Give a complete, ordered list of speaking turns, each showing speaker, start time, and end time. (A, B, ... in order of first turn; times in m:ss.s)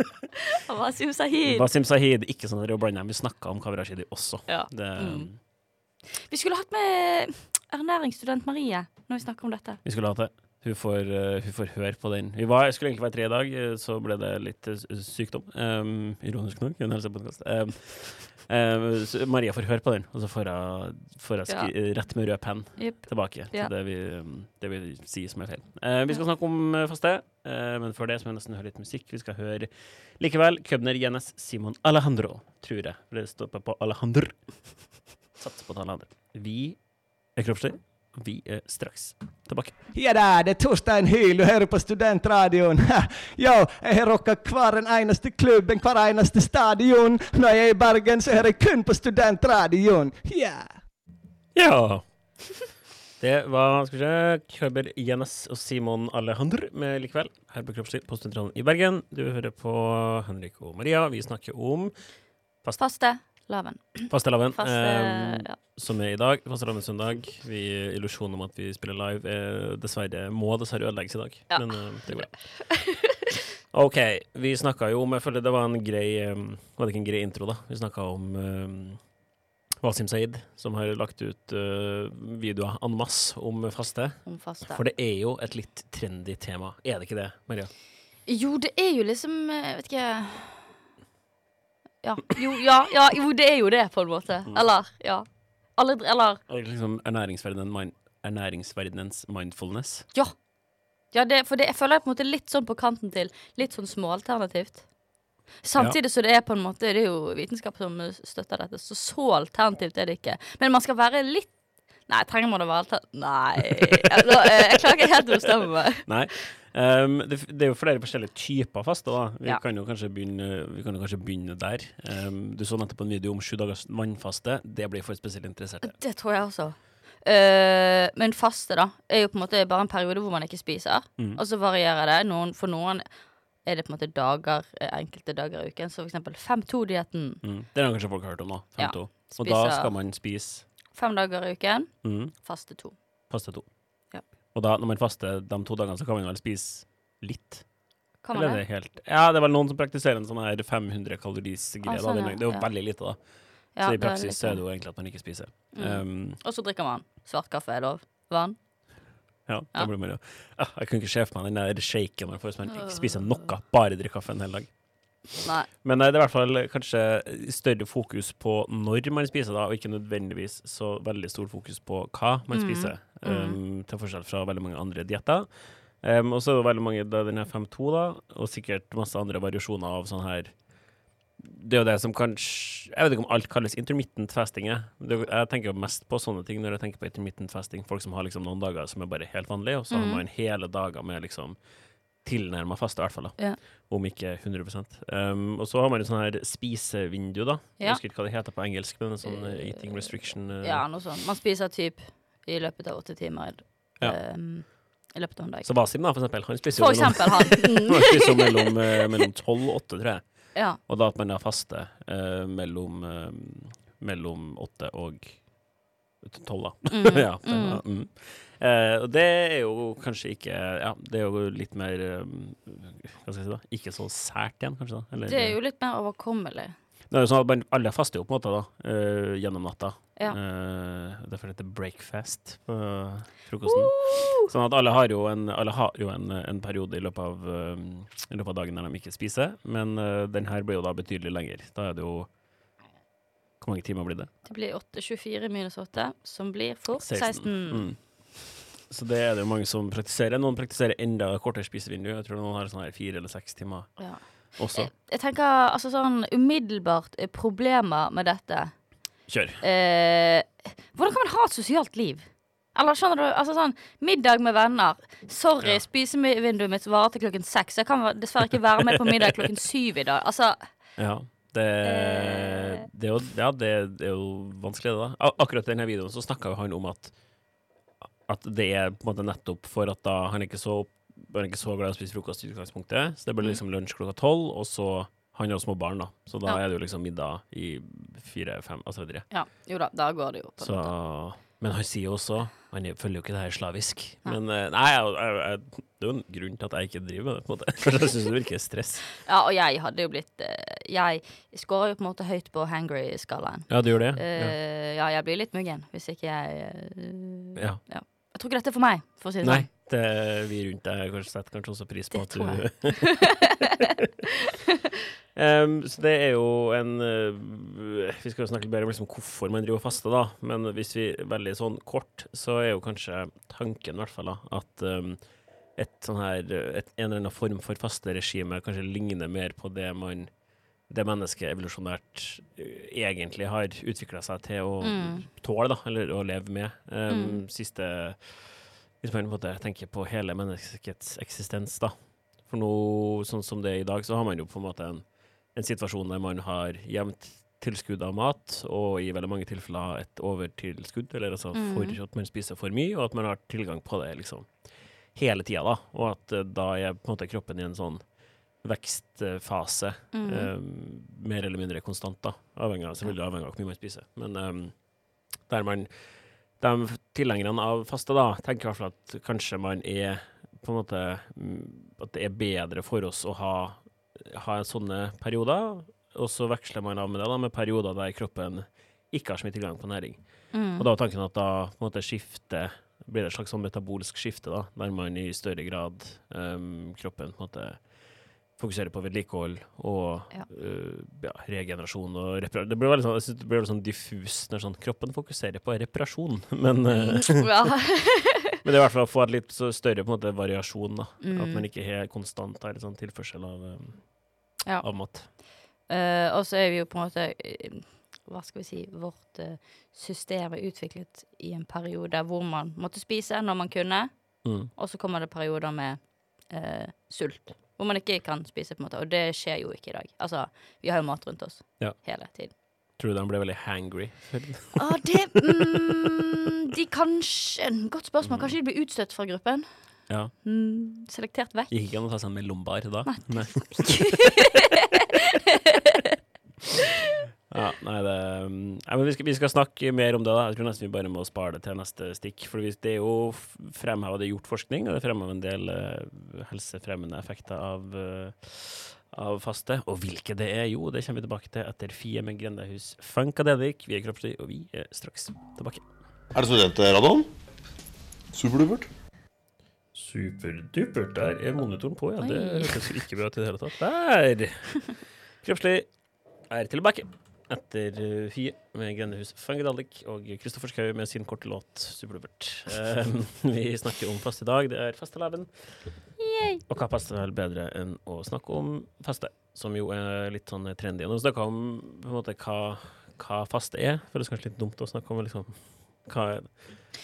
0:00.6-0:01.7 A
0:01.4-0:05.4 B
0:04.5-0:09.8 A
0:09.8-0:39.7 B
0:22.8-0:23.7 A
0:39.9-0:50.8 C
0:51.6-0:52.4 B
0:53.2-1:02.8 B
1:02.8-1:05.6 A
1:04.1-1:13.0 B
1:11.5-1:12.9 A
1:13.7-1:19.1 B
1:19.8-1:27.7 B
1:24.2-1:24.8 A
1:28.3-1:30.7 A
1:32.0-1:36.4 A
1:36.5-1:40.1 B
1:41.1-1:44.9 A
1:45.6-1:56.4 A
1:56.0-2:06.0 B
2:05.8-2:13.1 A
2:13.6-2:17.4 A
2:17.4-2:20.7 B
2:18.8-2:19.9 A
2:20.9-2:23.0 A
2:22.0-2:22.4 B
2:23.3-2:23.7 B
2:24.5-2:27.7 B
2:28.2-2:28.6 A
2:28.3-2:36.4 B
2:31.8-2:32.7 A
2:33.7-2:34.7 A
2:35.7-2:38.6 A
2:39.4-2:45.2 B
2:42.7-2:43.1 A
2:45.4-2:45.7 A
2:45.8-3:00.6 B
2:52.5-2:53.6 A
3:01.4-3:20.9 B
3:09.9-3:10.2 A
3:17.8-3:18.0 A
3:19.2-3:28.7 A
3:25.6-3:35.5 B
3:30.5-3:30.8 A
3:36.2-3:45.6 B
3:36.9-3:37.8 A
3:45.2-3:46.8 A
3:47.1-4:02.3 B
3:53.6-3:54.5 A
4:03.6-4:04.3 B
4:04.5-4:07.9 A
4:07.0-4:14.9 B
4:14.0-4:18.9 A
4:19.3-4:19.6 B
4:19.6-4:31.0 A
4:31.0-4:37.2 B
4:31.8-4:32.9 A
4:38.2-4:49.3 B
4:49.3-4:51.0 A
4:50.6-4:59.1 B
4:59.2-5:09.7 A
5:03.7-5:04.6 B
5:07.6-5:07.8 B
5:09.4-5:13.5 B
5:12.1-5:13.6 A
5:15.4-6:28.0 B
5:34.8-5:35.2 A
5:37.1-5:37.4 A
5:51.5-5:52.0 A
6:00.1-6:00.5 A
6:20.5-6:20.9 A
6:28.5-6:37.8 B
6:36.9-6:38.4 A
6:38.6-6:45.3 B
6:41.2-6:41.6 A
6:44.6-7:02.5 A
6:54.4-6:54.7 B
7:01.8-7:05.8 B
7:04.8-7:11.7 A
7:08.2-7:08.6 B
7:10.1-7:10.3 B
7:11.7-7:14.3 B
7:13.0-7:14.7 A
7:15.6-7:16.0 A
7:17.5-7:35.8 B
7:39.9-7:45.9 B
7:42.2-7:42.8 A
7:46.5-7:56.0 B
7:56.2-7:56.6 A
7:56.7-8:06.6 B